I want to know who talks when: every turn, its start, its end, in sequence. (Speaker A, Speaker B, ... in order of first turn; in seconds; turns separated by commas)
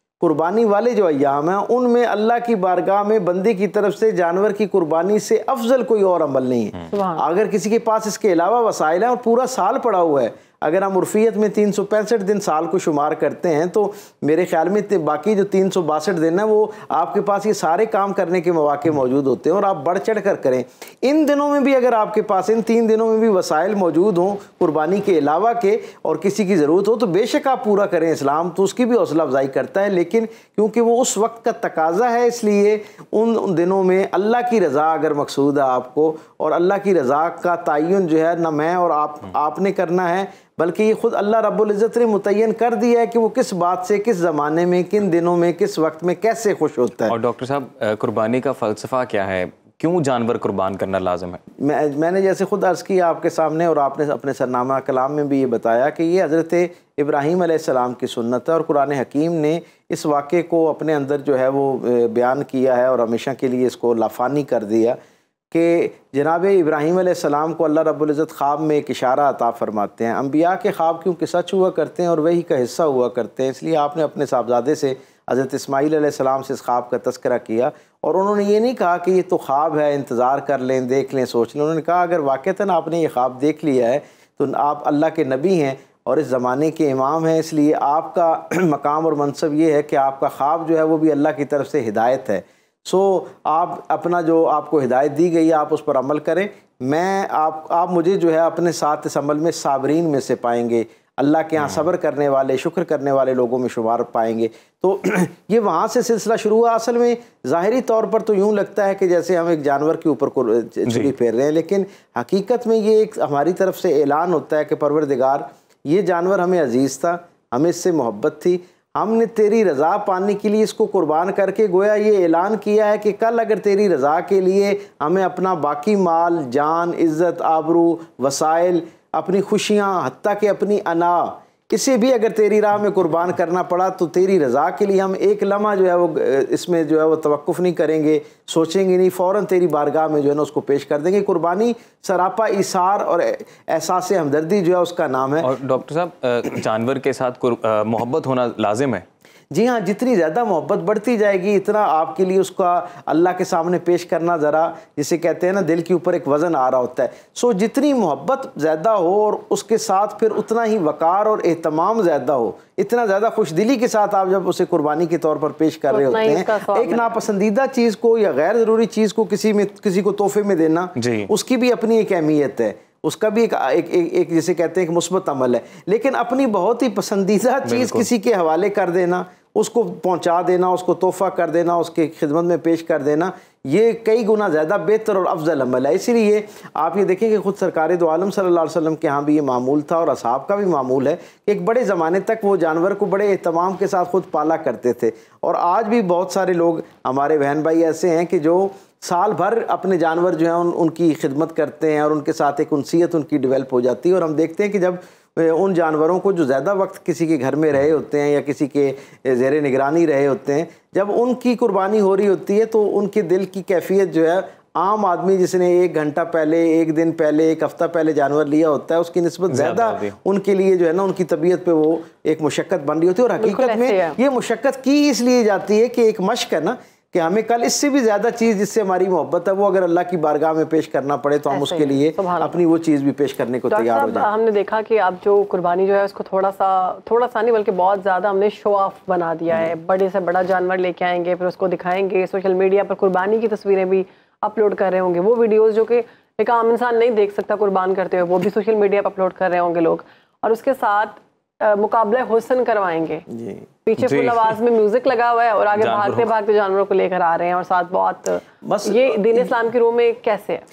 Speaker A: 0.2-47.1, Speaker B: 6.9-7.2, Speaker C: 47.1-51.4, Speaker A: 51.6-65.0, Speaker A: 65.5-145.5, Speaker C: 110.9-111.1, Speaker C: 145.4-149.0, Speaker A: 149.5-234.3, Speaker B: 165.9-167.2, Speaker C: 171.0-171.3, Speaker C: 177.6-178.1, Speaker C: 219.5-220.2, Speaker B: 223.4-224.2, Speaker B: 231.5-232.6, Speaker B: 233.7-253.2, Speaker A: 253.3-253.7, Speaker B: 253.9-260.6, Speaker C: 254.0-254.6, Speaker C: 255.8-256.3, Speaker A: 258.6-259.6